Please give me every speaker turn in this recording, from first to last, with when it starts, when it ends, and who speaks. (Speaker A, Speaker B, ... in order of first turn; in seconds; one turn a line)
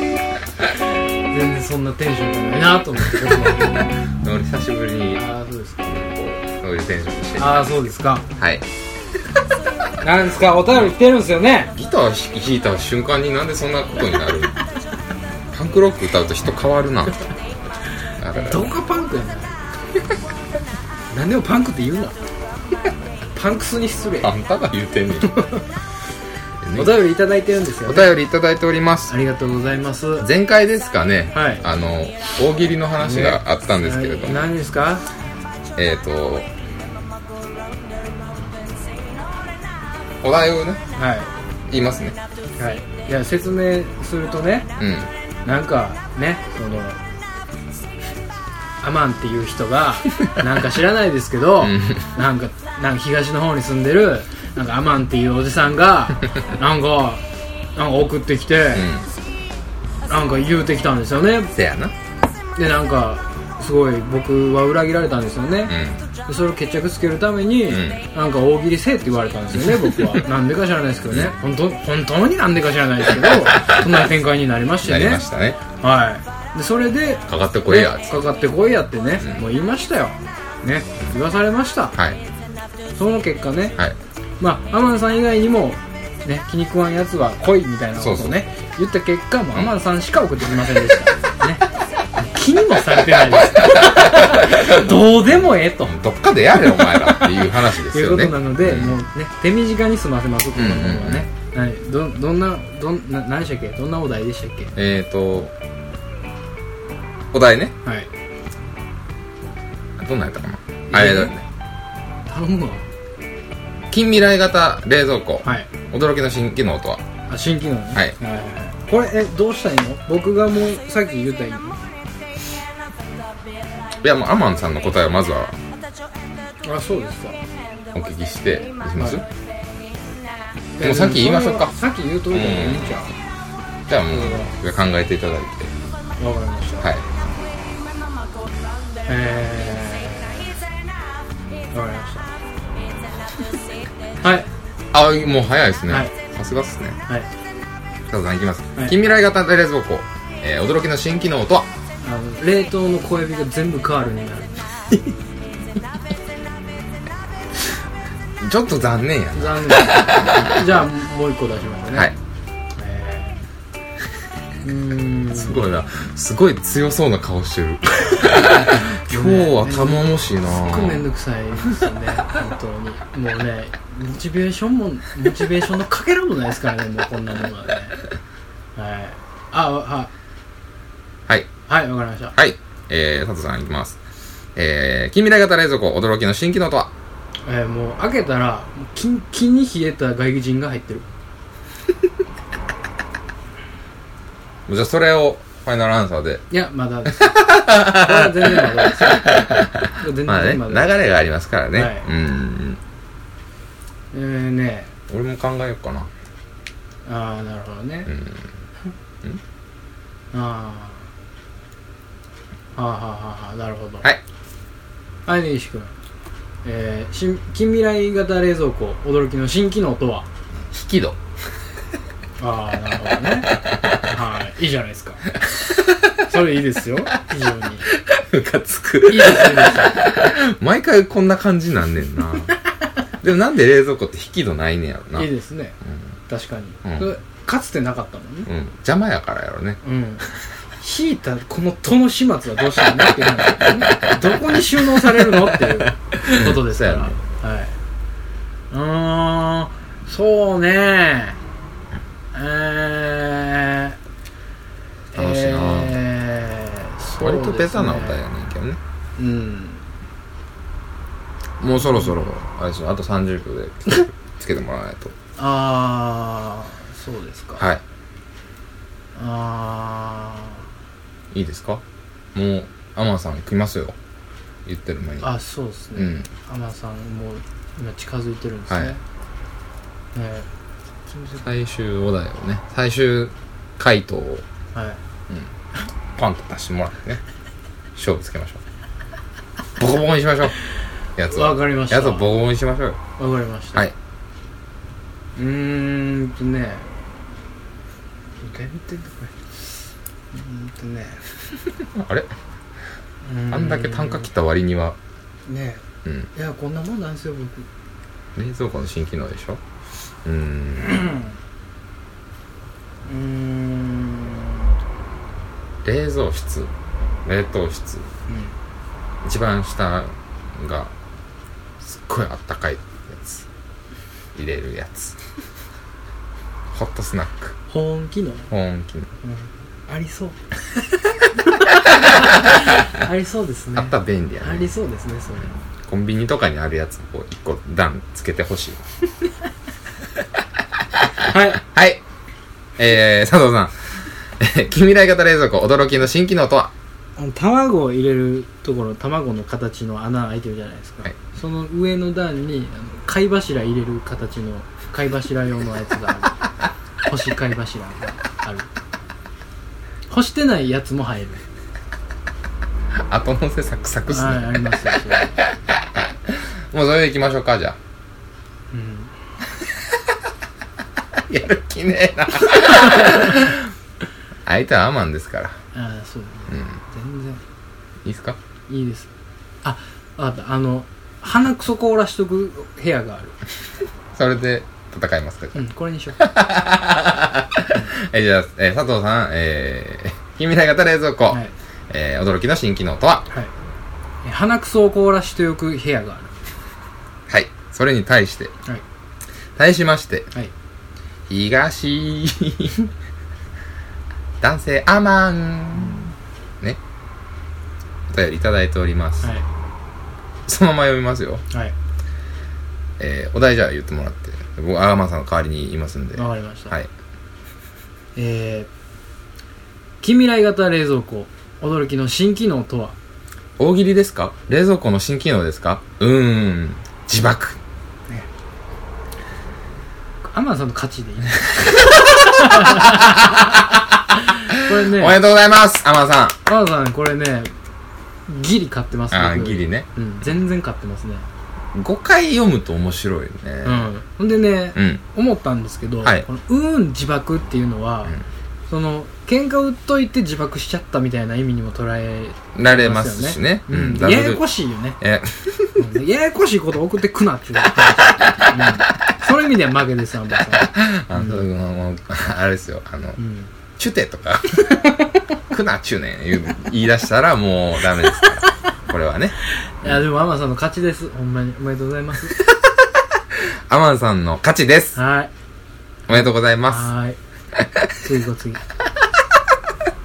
Speaker A: 1.3-3.9
Speaker B: 3.2-5.2
Speaker A: 5.2-5.9
Speaker B: 5.8-8.7
Speaker A: 7.4-8.3
Speaker A: 10.0-11.7
Speaker B: 11.7-14.6
Speaker B: 15.5-17.2
Speaker B: 18.2-18.7
Speaker A: 18.3-19.6
Speaker A: 21.1-22.2
Speaker A: 23.3-24.3
Speaker B: 24.2-25.3
Speaker A: 25.2-25.7
Speaker B: 26.6-27.0
Speaker A: 26.8-28.1
Speaker B: 27.9-29.1
Speaker A: 29.1-30.3
Speaker B: 30.2-34.5
Speaker A: 31.3-31.6
Speaker A: 33.0-35.1
Speaker B: 35.8-36.5
Speaker B: 40.2-40.8
Speaker A: 41.0-41.3
Speaker B: 41.7-42.2
Speaker A: 42.6-44.7
Speaker B: 44.8-45.1
Speaker A: 45.5-47.0
Speaker A: 48.8-57.2
Speaker B: 51.6-52.0
Speaker A: 57.8-58.9
Speaker B: 58.7-59.1
Speaker A: 60.1-61.5
Speaker B: 61.6-61.9
Speaker A: 62.6-82.0
Speaker B: 65.7-66.0
Speaker B: 67.7-68.0
Speaker B: 69.6-70.2
Speaker B: 73.3-73.8
Speaker B: 74.8-75.6
Speaker B: 77.3-78.2
Speaker B: 82.0-82.2
Speaker A: 83.0-83.8
Speaker A: 84.4-91.6
Speaker B: 88.0-88.4
Speaker A: 92.2-96.0
Speaker B: 93.4-94.7
Speaker B: 95.8-99.0
Speaker A: 96.5-97.3
Speaker A: 97.9-104.7
Speaker B: 100.5-101.3
Speaker B: 104.8-105.5
Speaker B: 107.3-107.7
Speaker A: 107.8-108.1
Speaker B: 110.0-111.4
Speaker A: 110.9-111.4
Speaker A: 112.3-112.9
Speaker B: 113.9-117.0
Speaker A: 115.4-115.7
Speaker A: 117.3-121.8
Speaker B: 124.0-125.6
Speaker A: 126.6-127.4
Speaker B: 127.9-129.2
Speaker A: 130.8-133.1
Speaker B: 130.8-131.8
Speaker B: 132.3-133.0
Speaker B: 133.9-135.8
Speaker A: 134.1-134.5
Speaker A: 136.2-136.9
Speaker A: 139.1-140.5
Speaker A: 141.7-142.3
Speaker A: 144.2-144.5
Speaker B: 144.9-147.0
Speaker B: 148.1-151.7
Speaker A: 152.0-155.0
Speaker B: 158.4-160.6
Speaker A: 159.3-162.1
Speaker A: 162.8-163.4
Speaker A: 164.6-165.7
Speaker B: 165.3-171.0
Speaker A: 168.1-178.0
Speaker A: 178.8-180.1
Speaker A: 181.7-182.4
Speaker B: 182.3-184.0
Speaker B: 184.6-186.9
Speaker A: 187.4-191.1
Speaker B: 194.7-196.4
Speaker A: 196.5-200.9
Speaker B: 197.1-202.8
Speaker A: 201.8-202.1
Speaker A: 204.1-204.9
Speaker B: 205.1-206.1
Speaker A: 207.1-208.1
Speaker B: 208.1-208.5
Speaker A: 210.3-211.1
Speaker A: 212.8-214.1
Speaker A: 215.3-215.9
Speaker A: 216.6-220.3
Speaker B: 220.7-221.2
Speaker A: 222.4-225.3
Speaker A: 226.2-227.9
Speaker B: 227.9-232.5
Speaker A: 229.1-230.1
Speaker B: 233.2-235.3
Speaker A: 235.2-235.8
Speaker A: 236.3-238.5
Speaker B: 236.8-237.1
Speaker B: 238.5-239.8
Speaker A: 239.8-240.2
Speaker A: 240.8-247.7
Speaker B: 243.6-247.2
Speaker A: 248.7-251.4
Speaker A: 252.3-254.0
Speaker A: 255.1-258.2
Speaker B: 255.2-256.0
Speaker B: 257.2-258.8
Speaker A: 259.2-259.8
Speaker B: 261.6-265.1
Speaker A: 265.4-267.6
Speaker A: 269.2-270.6
Speaker B: 271.3-271.8
Speaker B: 272.3-274.0
Speaker B: 274.7-275.3
Speaker A: 275.2-279.0
Speaker B: 275.9-276.3
Speaker B: 278.7-278.9
Speaker A: 280.1-280.5
Speaker B: 281.1-284.4
Speaker A: 284.7-285.0
Speaker B: 286.1-287.2
Speaker B: 288.0-288.6
Speaker B: 289.8-290.6
Speaker B: 291.2-293.0
Speaker A: 291.3-292.3
Speaker A: 293.2-293.9
Speaker A: 295.4-296.9
Speaker A: 298.4-299.5
Speaker A: 300.3-301.2
Speaker B: 301.8-302.3
Speaker A: 303.2-304.3
Speaker B: 303.5-305.0
Speaker A: 305.5-305.8
Speaker B: 306.1-306.3
Speaker A: 306.3-307.7
Speaker B: 308.4-309.6
Speaker B: 310.2-311.0
Speaker A: 310.8-311.3
Speaker A: 313.1-314.7
Speaker B: 315.8-316.7
Speaker B: 317.2-318.1
Speaker B: 319.2-320.9
Speaker B: 321.8-323.5
Speaker B: 324.4-325.2
Speaker B: 326.7-327.6
Speaker A: 327.7-328.5
Speaker B: 328.5-329.1
Speaker A: 329.2-330.4
Speaker A: 331.3-335.5
Speaker B: 333.8-334.7
Speaker B: 335.9-338.8
Speaker A: 341.2-341.6
Speaker B: 341.6-342.0
Speaker B: 342.8-343.7
Speaker B: 344.4-346.7
Speaker A: 347.2-356.4
Speaker A: 357.1-358.7
Speaker A: 360.1-361.4
Speaker B: 363.1-364.9
Speaker A: 364.1-365.4
Speaker B: 365.7-367.8
Speaker A: 368.7-369.1
Speaker B: 371.1-373.6
Speaker A: 372.6-373.4
Speaker B: 374.5-375.6
Speaker A: 375.7-377.4
Speaker B: 376.5-376.8
Speaker B: 378.1-378.4
Speaker A: 378.7-379.1
Speaker A: 379.6-383.4
Speaker B: 384.1-385.7
Speaker A: 385.5-386.3
Speaker B: 386.2-393.3
Speaker A: 394.2-396.3
Speaker B: 397.3-398.5
Speaker B: 399.6-400.3
Speaker B: 401.3-402.9
Speaker B: 404.4-406.8
Speaker A: 405.8-406.1
Speaker B: 408.1-409.3
Speaker B: 410.5-411.4
Speaker B: 413.0-416.9
Speaker A: 416.1-416.7
Speaker A: 418.2-418.7
Speaker A: 420.0-422.9
Speaker B: 423.6-427.6
Speaker A: 430.3-435.2
Speaker B: 431.5-433.6
Speaker B: 434.7-436.4
Speaker A: 436.5-437.5
Speaker A: 438.3-441.3
Speaker B: 439.1-439.9
Speaker B: 441.7-443.9
Speaker A: 443.6-448.2
Speaker B: 444.8-445.0
Speaker A: 448.7-455.0
Speaker B: 452.6-454.4
Speaker B: 455.0-455.8
Speaker A: 455.8-461.4
Speaker B: 460.6-463.2
Speaker A: 463.2-463.5
Speaker B: 463.8-464.8
Speaker B: 465.5-470.0
Speaker A: 469.6-472.4
Speaker B: 472.4-475.0
Speaker A: 475.0-475.3
Speaker B: 476.1-476.9
Speaker A: 476.1-477.2
Speaker B: 477.6-477.9
Speaker A: 478.0-478.6